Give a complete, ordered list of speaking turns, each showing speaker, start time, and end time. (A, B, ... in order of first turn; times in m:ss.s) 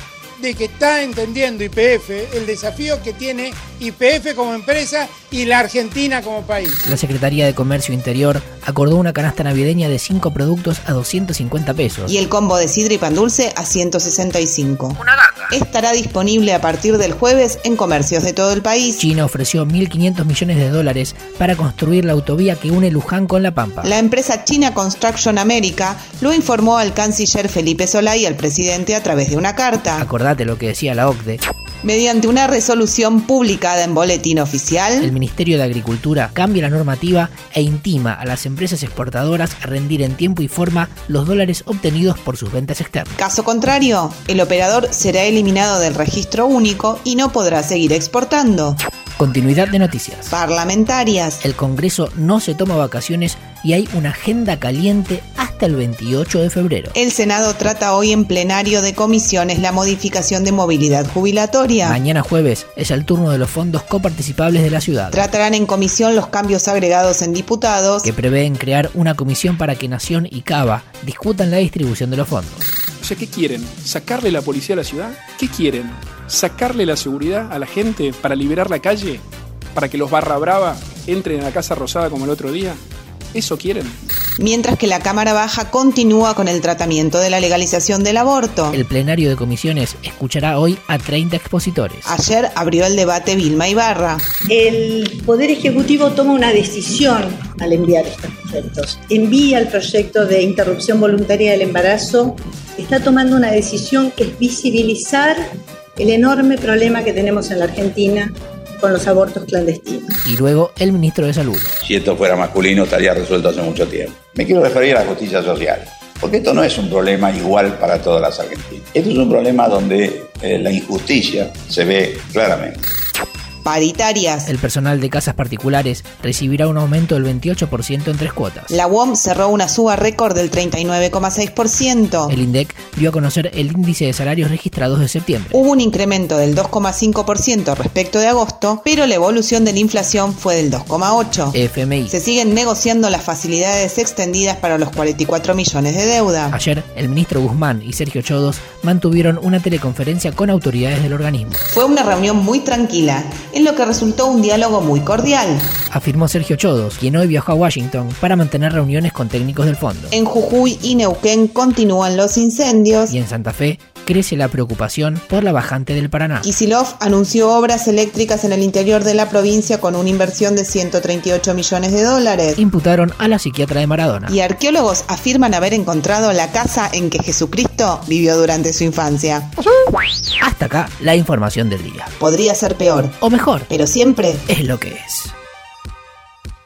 0:00.4-0:06.9 A
0:06.8-0:12.1 B
0:12.1-0:19.0 C
0:19.0-0:23.9 B
0:23.8-0:30.1 C
0:30.0-0:31.4 B
0:31.8-0:35.1 C
0:35.0-0:43.2 B
0:43.2-0:48.8 C
0:49.2-0:50.3 B
0:50.3-0:51.4 C
0:51.4-0:56.9 B
0:56.9-1:02.0 C
1:01.8-1:05.2 B
1:05.1-1:08.1 C
1:08.0-1:12.7 B
1:13.0-1:19.2 D
1:19.7-1:22.8 D
1:23.3-1:24.0 D
1:24.4-1:28.8 C
1:28.7-1:32.1 B
1:32.0-1:34.3 C
1:34.4-1:50.2 E
1:50.2-1:51.7 B
1:51.8-2:02.8 F
2:03.6-2:04.5 C
2:04.5-2:08.7 B
2:08.7-2:12.4 C
2:12.3-2:15.6 B
2:15.5-2:26.6 C
2:21.5-2:22.2 B
2:26.5-2:31.6 B
2:31.7-2:35.7 C
2:35.9-2:40.2 B
2:40.1-2:43.2 C
2:43.1-2:46.5 B
2:46.4-2:52.6 C
2:52.6-2:54.3 B
2:54.3-2:59.5 C
3:00.4-3:02.1 B
3:02.2-3:03.2 C
3:03.2-3:03.7 B
3:03.7-3:04.5 C
3:04.5-3:05.3 B